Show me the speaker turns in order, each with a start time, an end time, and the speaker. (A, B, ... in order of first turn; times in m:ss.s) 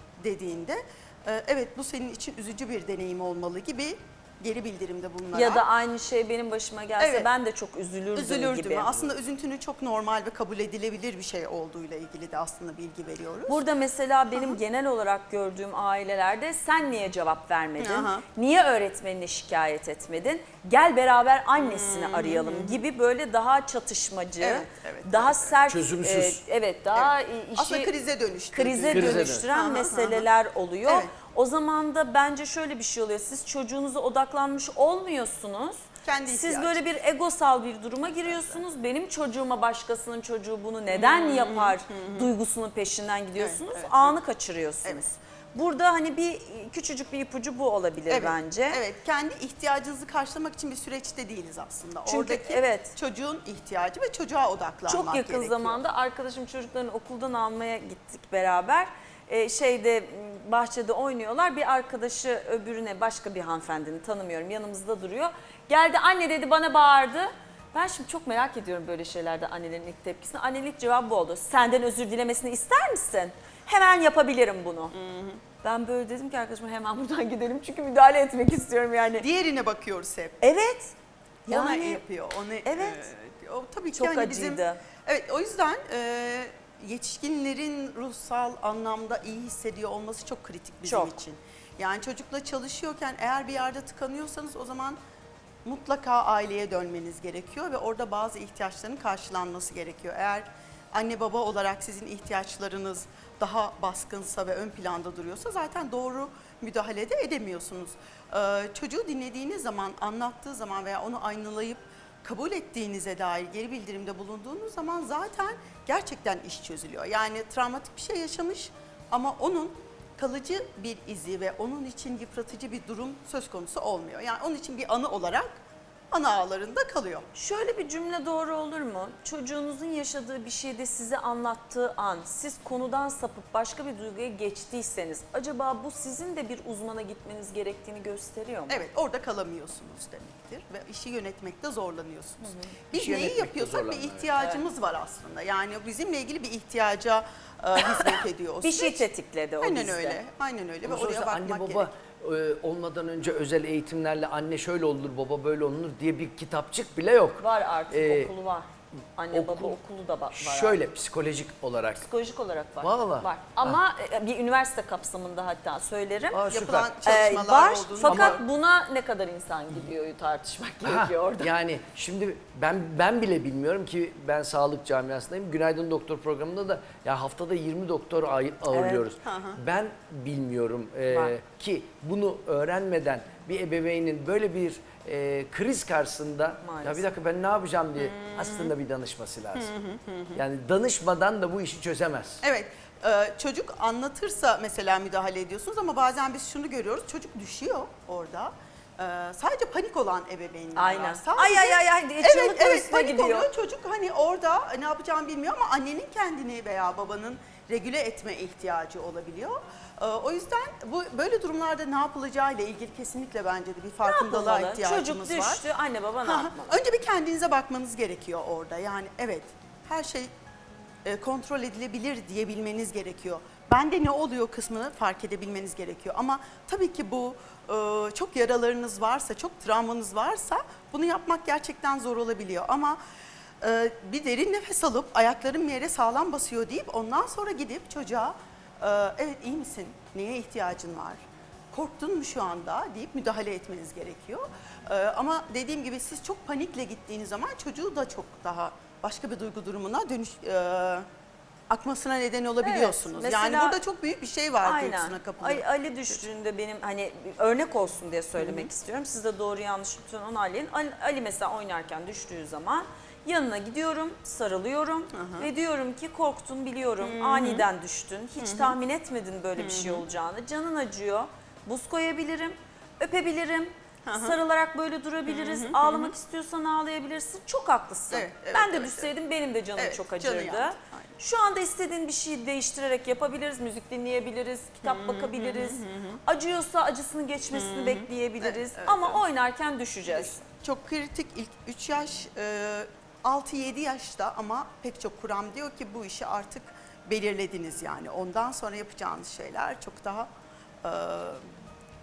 0:00.2-0:05.6 A
0:05.3-0:09.1 B
0:07.0-0:07.3 A
0:08.2-0:13.6 A
0:13.5-0:27.9 B
0:14.3-0:14.6 A
0:17.8-0:18.2 A
0:21.6-0:22.8 A
0:24.4-0:25.5 A
0:25.7-0:26.4 C
0:27.0-0:30.3 A
0:28.5-0:48.8 B
0:28.9-0:29.5 C
0:30.9-0:31.1 A
0:36.0-0:36.8 A
0:38.1-0:38.6 A
0:40.9-0:42.3 A
0:43.4-0:44.2 A
0:48.1-0:55.8 A
0:52.1-0:53.0 B
0:54.9-1:14.9 B
1:14.9-1:15.4 A
1:15.6-1:19.3 B
1:19.2-1:20.4 A
1:20.4-1:21.0 B
1:21.5-1:35.0 A
1:21.5-1:22.0 B
1:22.6-1:23.1 B
1:23.9-1:24.8 B
1:30.8-1:31.2 B
1:35.6-2:05.5 A
2:06.1-2:07.3 A
2:07.3-2:18.9 B
2:18.7-2:29.1 A
2:22.4-2:22.7 B
2:22.9-2:24.3 C
2:24.4-2:24.6 B
2:27.8-2:30.2 B
2:29.6-2:31.9 A
2:30.8-2:38.3 C
2:37.4-2:40.8 B
2:39.3-2:39.8 C
2:40.3-2:42.1 C
2:42.0-2:46.4 B
2:42.8-2:43.8 C
2:46.3-2:46.9 C
2:46.5-2:48.4 A
2:47.0-2:51.5 B
2:48.1-2:48.4 C
2:50.8-3:09.7 C
2:58.7-2:59.1 B
2:59.2-2:59.6 A
3:01.1-3:01.3 B
3:06.6-3:07.1 B
3:08.0-3:08.7 A
3:09.6-3:10.4 A
3:10.4-3:12.4 C
3:12.4-3:35.6 A
3:20.8-3:23.5 B
3:34.0-3:36.8 B
3:36.2-3:40.3 A
3:41.0-3:53.0 A
3:53.6-4:11.1 A
4:11.7-4:16.2 A
4:12.6-4:13.8 B
4:14.6-4:50.4 B
4:18.4-4:18.7 A
4:25.1-4:25.5 A
4:27.0-4:27.7 A
4:28.4-4:28.8 A
4:29.6-4:30.0 A
4:34.0-4:34.4 A
4:35.3-4:36.1 A
4:38.1-4:39.1 A
4:39.8-4:41.1 A
4:44.8-4:46.2 A
4:47.5-4:49.2 A
4:50.1-5:00.3 A
5:00.8-5:01.4 A